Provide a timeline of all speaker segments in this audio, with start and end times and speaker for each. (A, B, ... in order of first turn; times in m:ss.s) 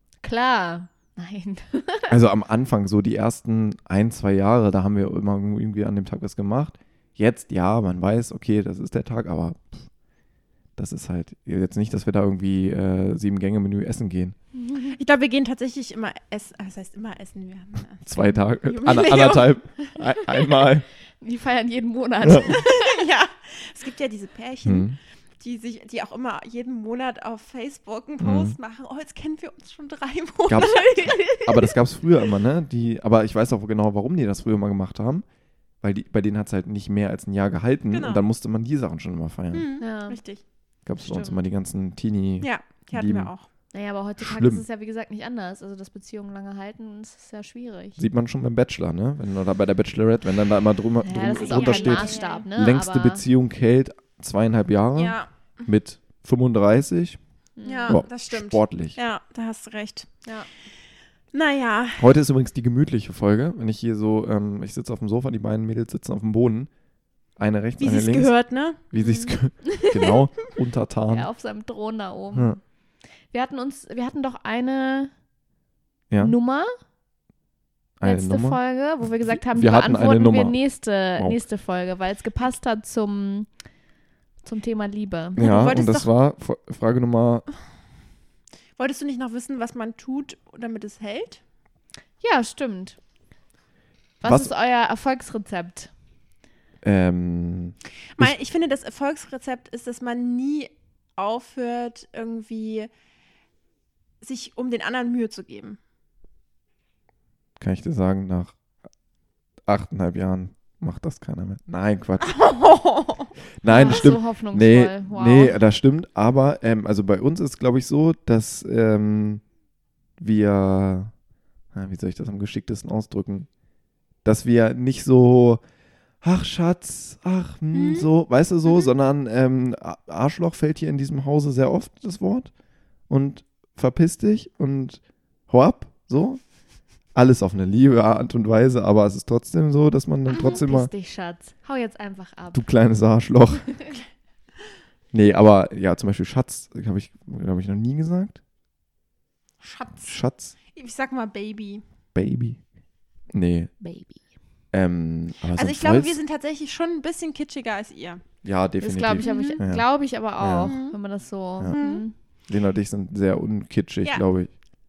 0:00.2-0:02.2 A
0:02.1-0:09.9 B
0:10.8-0:14.4 B
0:14.9-0:19.6 C
0:18.1-0:20.9 B
0:21.2-0:23.0 A
0:22.2-0:22.6 B
0:22.5-0:31.7 C
0:24.6-0:25.0 B
0:28.2-0:28.6 B
0:30.5-0:35.2 B
0:30.8-0:31.5 A
0:35.8-0:39.7 B
0:37.9-0:38.2 C
0:39.5-0:40.4 C
0:39.8-0:40.2 A
0:40.9-0:43.3 B
0:41.0-0:41.4 A
0:42.4-0:43.5 C
0:43.7-0:48.0 A
0:44.2-0:44.6 B
0:48.0-0:57.2 B
0:51.0-0:53.2 A
0:51.5-0:52.5 C
0:55.0-0:55.7 C
0:57.6-0:58.0 A
0:57.6-1:00.1 C
0:57.9-0:59.0 B
1:01.3-1:02.1 C
1:02.0-1:06.7 B
1:07.4-1:08.3 B
1:07.8-1:09.3 C
1:08.9-1:11.3 B
1:11.1-1:12.6 A
1:13.3-1:15.1 A
1:16.1-1:16.4 B
1:16.2-1:16.7 A
1:18.0-1:20.6 B
1:18.0-1:23.5 A
1:21.2-1:21.4 B
1:24.4-1:25.7 A
1:25.4-1:27.5 B
1:25.4-1:26.1 C
1:28.8-1:31.4 C
1:32.2-1:33.0 A
1:34.2-1:35.9 A
1:34.2-1:34.5 B
1:36.8-1:38.3 B
1:38.2-1:42.9 C
1:44.2-1:45.8 C
1:47.6-1:48.6 B
1:49.7-1:52.4 B
1:52.2-1:53.3 C
1:53.6-1:59.4 B
1:53.7-1:55.6 A
2:00.2-2:01.1 B
2:01.7-2:03.5 B
2:04.2-2:05.6 B
2:06.2-2:12.5 B
2:07.7-2:08.1 C
2:13.1-2:16.4 B
2:17.2-2:20.9 B
2:20.3-2:22.6 A
2:22.5-2:23.9 B
2:25.1-2:28.4 B
2:29.6-2:30.2 C
2:30.1-2:30.6 B
2:30.7-2:31.8 C
2:32.2-2:32.6 B
2:33.3-2:33.7 B
2:33.8-2:34.2 A
2:34.7-2:36.2 B
2:35.6-2:38.2 C
2:38.4-2:39.8 B
2:38.8-2:42.1 A
2:39.2-2:39.6 C
2:40.4-2:40.7 B
2:40.6-2:41.0 C
2:41.7-2:42.0 C
2:42.5-2:44.5 B